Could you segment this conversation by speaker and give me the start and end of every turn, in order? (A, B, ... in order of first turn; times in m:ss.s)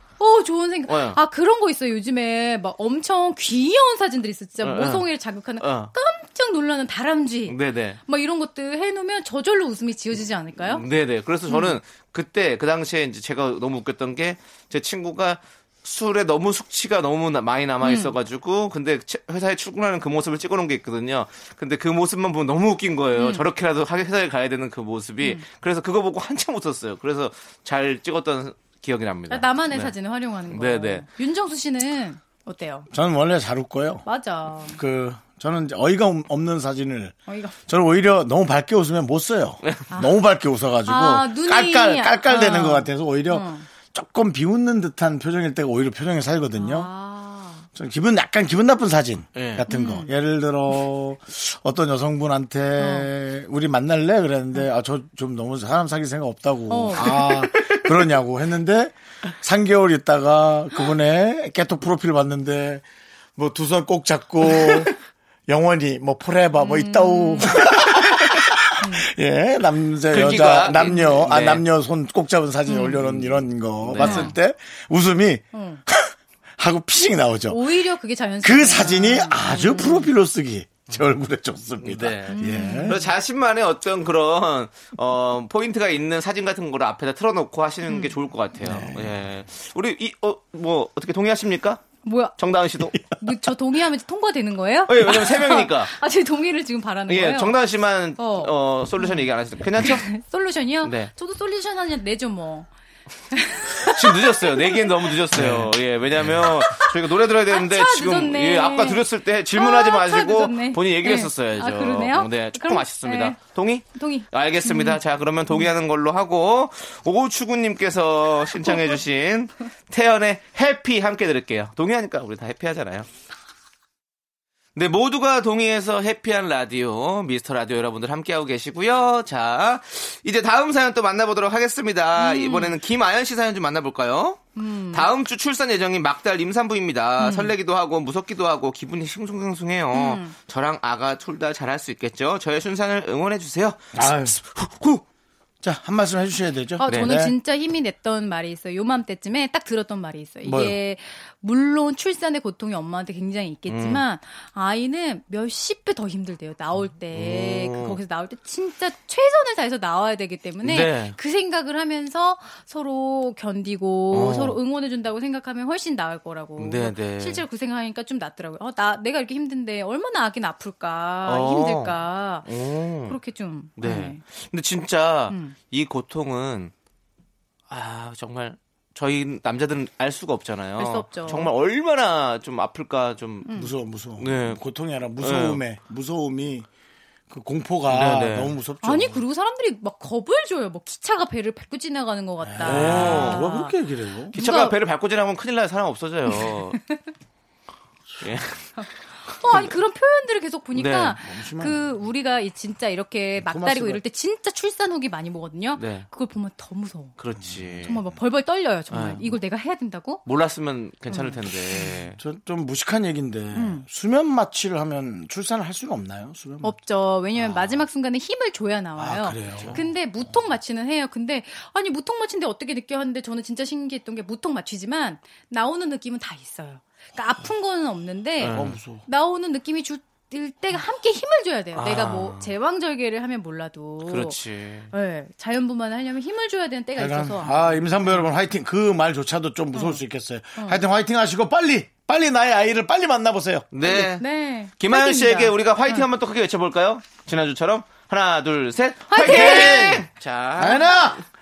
0:00.2-0:10.8 A
0:00.9-0:01.2 B
0:04.6-0:05.1 B
0:05.6-0:05.9 B
0:07.5-0:08.0 B
0:10.6-0:29.9 B
0:11.5-0:11.8 A
0:17.8-0:18.1 A
0:23.1-0:23.4 A
0:29.3-0:32.9 A
0:30.5-0:31.0 B
0:32.9-0:34.0 C
0:34.0-0:34.8 A
0:34.7-0:37.1 C
0:37.3-0:37.6 A
0:37.7-0:46.9 C
0:39.9-0:40.2 A
0:40.8-0:43.7 A
0:46.6-0:47.6 A
0:47.7-1:02.8 C
0:49.3-0:49.6 B
0:49.7-0:50.1 A
0:52.8-0:53.1 A
0:56.7-0:57.5 A
1:03.4-1:04.9 C
1:05.5-1:17.6 C
1:06.6-1:07.7 A
1:08.8-1:09.1 A
1:10.1-1:11.6 B
1:12.7-1:13.0 A
1:13.0-1:14.3 B
1:14.0-1:14.3 A
1:15.5-1:15.8 A
1:17.5-1:20.1 A
1:18.4-1:23.0 C
1:21.8-1:31.9 B
1:22.3-1:23.0 A
1:27.8-1:28.1 A
1:28.6-1:29.2 C
1:32.0-1:32.4 A
1:32.4-1:33.0 B
1:32.9-1:37.6 A
1:34.9-1:35.9 B
1:37.1-1:40.1 B
1:38.2-1:42.7 A
1:40.8-1:41.1 B
1:43.3-1:45.2 A
1:43.8-2:03.1 B
1:45.3-1:46.4 C
1:46.7-1:53.4 A
1:53.9-1:55.7 A
1:58.6-1:59.0 A
2:04.7-2:25.0 B
2:12.2-2:12.8 A
2:14.6-2:15.1 A
2:17.2-2:17.5 A
2:19.9-2:20.3 A
2:23.9-2:24.4 C
2:25.6-2:27.3 C
2:26.8-2:52.5 A
2:30.4-2:30.8 C
2:33.7-2:34.0 B
2:37.1-2:38.0 B
2:40.6-2:41.2 B
2:44.1-2:44.6 B
2:46.6-2:47.4 B
2:51.2-2:53.2 B
2:53.1-2:54.2 A
2:53.8-2:56.7 B
2:55.3-2:55.6 A
2:57.7-3:03.5 B
3:00.8-3:01.5 A
3:03.4-3:03.7 A
3:03.5-3:06.7 C
3:04.2-3:04.6 B
3:05.2-3:05.6 B
3:07.3-3:09.2 C
3:07.9-3:08.5 B
3:08.8-3:13.8 A
3:12.4-3:14.3 C
3:12.6-3:13.4 B
3:14.3-3:14.8 A
3:14.3-3:16.8 B
3:16.3-3:17.0 A
3:18.2-3:19.7 B
3:18.8-3:27.2 A
3:20.7-3:21.2 B
3:21.2-3:21.8 C
3:23.4-3:24.0 C
3:25.8-3:26.0 B
3:27.2-3:28.0 B
3:27.4-3:28.0 C
3:27.8-3:30.2 A
3:28.9-3:29.3 B
3:30.2-3:32.2 B
3:31.1-3:32.0 A
3:32.2-3:36.7 C
3:33.5-3:33.8 A
3:36.6-3:54.4 A
3:37.3-3:37.8 C
3:39.0-3:39.8 C
3:48.4-3:48.8 B
3:48.4-3:49.0 C
3:51.7-3:52.5 B
3:54.0-3:54.9 B
3:54.9-3:58.0 A
3:57.0-4:03.7 C
3:59.7-4:00.0 A
4:00.6-4:00.8 A
4:03.7-4:04.2 B
4:03.8-4:06.0 A
4:04.8-4:11.1 B
4:09.1-4:10.0 A
4:09.2-4:11.2 C